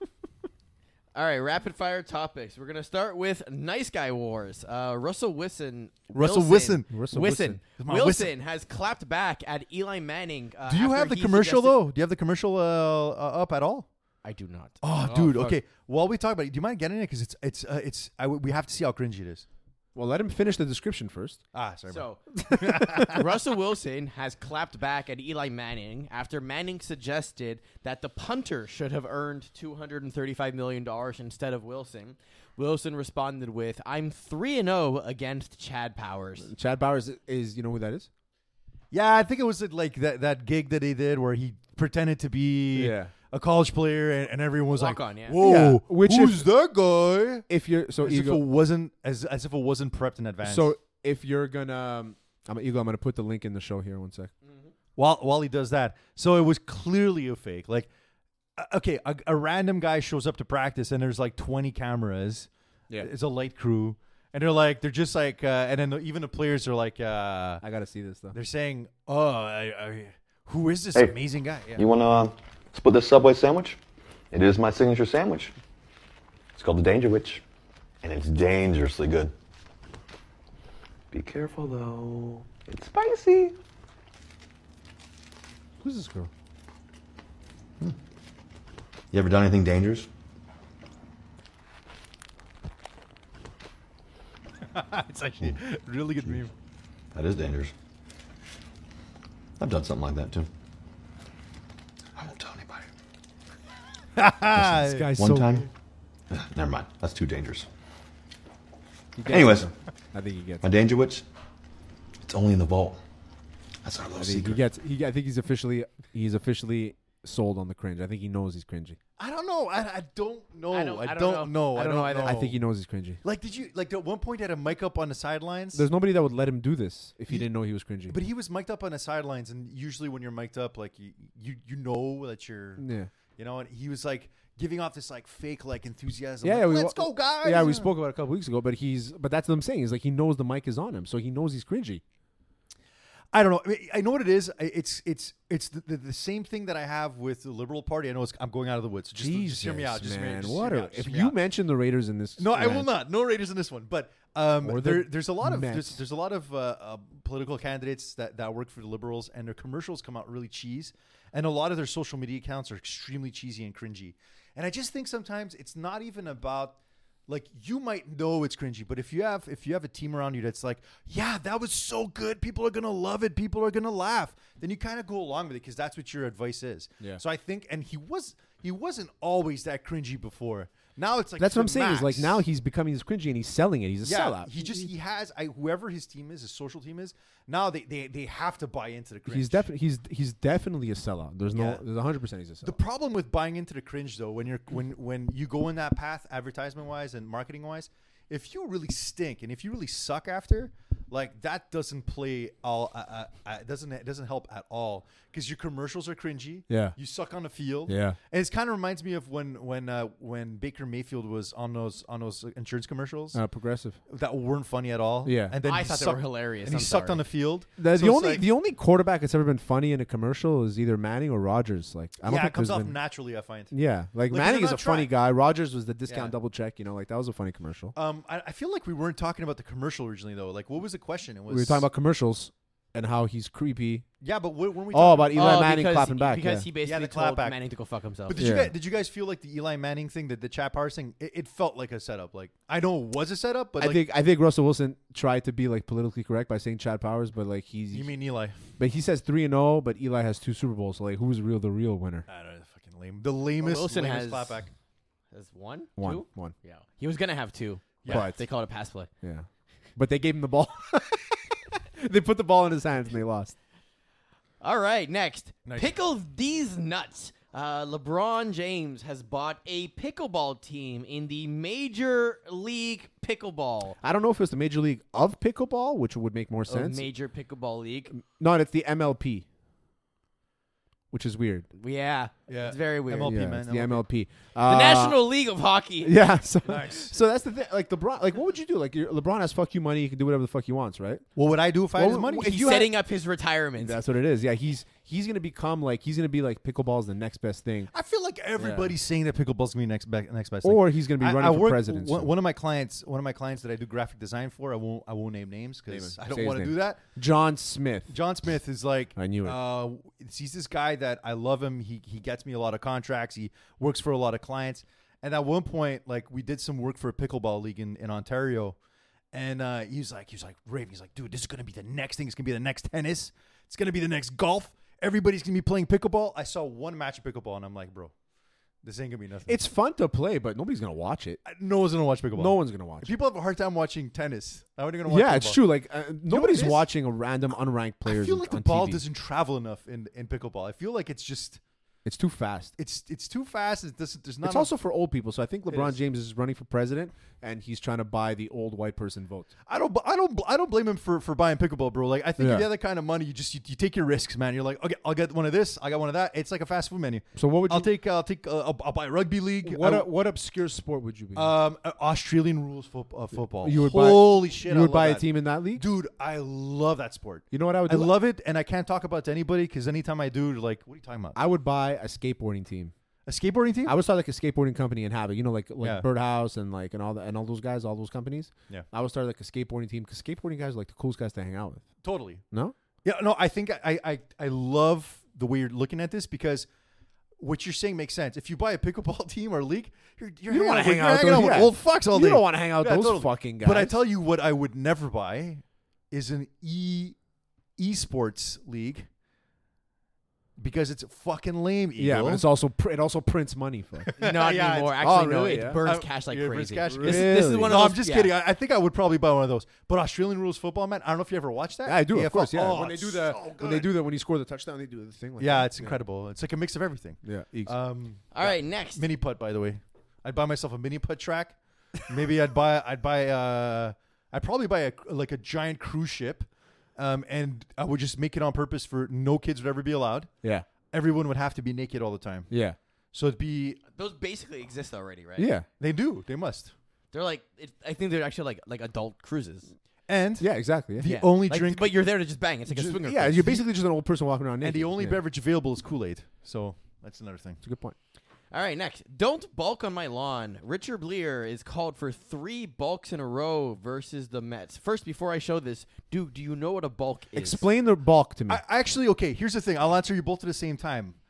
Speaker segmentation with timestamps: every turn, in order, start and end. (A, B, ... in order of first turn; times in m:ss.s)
0:01.1-0:11.8 A
0:06.1-0:07.0 B
0:06.9-0:07.6 C
0:07.8-0:08.3 B
0:10.7-0:13.9 B
0:14.2-0:15.6 A
0:14.8-0:19.5 B
0:20.0-0:21.4 C
0:21.5-0:23.2 B
0:21.9-0:36.5 A
0:22.8-0:23.0 C
0:36.4-0:38.1 C
0:38.9-0:47.5 B
0:42.7-0:43.1 C
0:44.7-0:45.4 A
0:45.4-0:46.5 C
0:47.5-0:48.4 C
0:48.0-0:50.7 B
0:50.4-0:54.3 C
0:55.0-0:57.9 B
0:58.6-1:07.6 B
1:07.6-1:08.4 C
1:08.3-1:11.8 B
1:11.8-1:13.8 D
1:14.3-1:15.6 D
1:16.6-1:17.4 D
1:18.0-1:19.3 D
1:21.1-1:23.6 D
1:25.8-1:26.3 C
1:29.1-1:30.1 D
1:34.7-1:36.5 B
1:37.1-1:37.7 D
1:39.6-1:40.5 D
1:42.2-1:42.9 D
1:44.2-1:45.1 B
1:44.6-1:45.7 C
1:45.1-1:45.7 D
1:46.3-1:47.7 D
1:49.2-1:50.6 C
1:49.3-1:49.7 D
1:50.6-1:51.2 D
1:52.2-1:53.0 D
1:53.8-1:54.6 D
1:54.1-1:59.0 C
1:59.2-2:02.6 B
2:00.7-2:02.5 A
2:02.2-2:03.2 C
2:03.2-2:05.9 B
2:05.7-2:08.2 C
2:08.1-2:12.8 B
2:12.8-2:13.1 C
2:13.4-2:17.9 B
2:16.4-2:22.0 C
2:23.3-2:31.4 B
2:29.2-2:32.9 C
2:32.4-3:02.4 B
2:34.6-2:36.0 C
3:01.4-3:04.9 C
3:04.0-3:09.6 B
3:09.3-3:12.8 C
3:11.5-3:11.8 B
3:12.6-3:33.4 B
3:26.7-3:27.0 C
3:27.9-3:28.2 C
3:33.3-3:34.0 C
3:34.1-3:38.5 B
3:35.2-3:35.6 C
3:35.6-3:37.2 A
3:37.8-3:43.0 C
3:42.2-3:43.7 B
3:43.7-3:48.0 C
3:44.3-3:45.1 B
3:46.1-3:46.3 B
3:48.0-3:51.9 B
3:51.5-3:54.1 C
3:54.2-3:55.7 B
3:54.9-3:56.7 C
3:55.3-3:58.4 A
3:56.8-3:57.6 B
3:58.3-4:04.0 B
3:58.4-3:58.7 C
4:03.8-4:08.1 C
4:07.9-4:08.6 B
4:08.8-4:12.3 C
4:12.3-4:14.7 B
4:13.6-4:14.6 A
4:15.3-4:19.1 A
4:16.0-4:16.6 C
4:18.1-4:18.4 C
4:19.2-4:23.6 C
4:24.6-4:34.0 A
4:25.7-4:25.9 B
4:34.0-4:37.1 C
4:36.7-4:38.1 A
4:38.1-4:39.4 C
4:41.1-4:41.7 C
4:41.8-4:43.5 A
4:42.5-4:44.1 B
4:43.2-4:45.2 C
4:44.6-4:46.2 A
4:46.0-4:51.3 C
4:46.6-4:47.2 B
4:51.4-4:52.7 B
4:51.9-4:52.9 C
4:52.4-4:54.0 A
4:53.8-4:57.9 C
4:57.9-5:07.0 B
4:58.6-4:59.0 C
5:00.6-5:02.3 C
5:05.9-5:08.2 C
5:08.1-5:18.8 B
5:09.2-5:09.6 C
5:19.3-5:28.1 B
5:28.8-5:29.6 B
5:29.5-5:31.4 C
5:31.4-5:35.6 B
5:32.3-5:33.1 C
5:35.1-5:39.0 C
5:36.3-5:36.9 B
5:38.0-5:41.6 B
5:42.0-5:42.7 C
5:42.8-5:44.7 B
5:44.4-5:49.5 C
5:45.7-5:46.0 B
5:49.7-6:00.1 B
5:52.4-5:52.7 C
5:57.4-5:57.9 C
5:59.6-6:01.6 C
6:01.4-6:11.4 B
6:03.4-6:05.8 C
6:07.5-6:08.2 C
6:11.4-6:12.9 C
6:13.3-6:14.0 B
6:13.9-6:21.9 C
6:15.8-6:16.1 B
6:22.0-6:22.4 B
6:23.0-6:26.7 B
6:27.4-6:37.2 B
6:30.5-6:34.0 C
6:37.8-6:39.1 B
6:40.6-6:42.5 B
6:42.0-6:44.1 C
6:44.1-6:45.0 B
6:44.2-6:48.4 A
6:45.0-6:45.8 C
6:45.8-6:54.0 B
6:46.9-6:47.8 C
6:51.9-6:56.0 C
6:55.4-7:10.3 B
6:57.2-6:57.8 C
6:58.3-6:59.0 A
7:10.9-7:12.5 B
7:12.5-7:12.8 C
7:13.1-7:13.8 B
7:14.0-7:15.5 A
7:15.4-7:15.7 C
7:15.8-7:16.7 B
7:17.1-7:19.7 A
7:20.1-7:22.0 B
7:20.4-7:21.1 C
7:21.0-7:23.6 A
7:22.8-7:23.6 B
7:22.8-7:25.2 C
7:24.6-7:27.6 B
7:27.6-7:28.0 C
7:28.5-7:37.6 A
7:37.4-7:38.6 C
7:38.5-7:41.2 B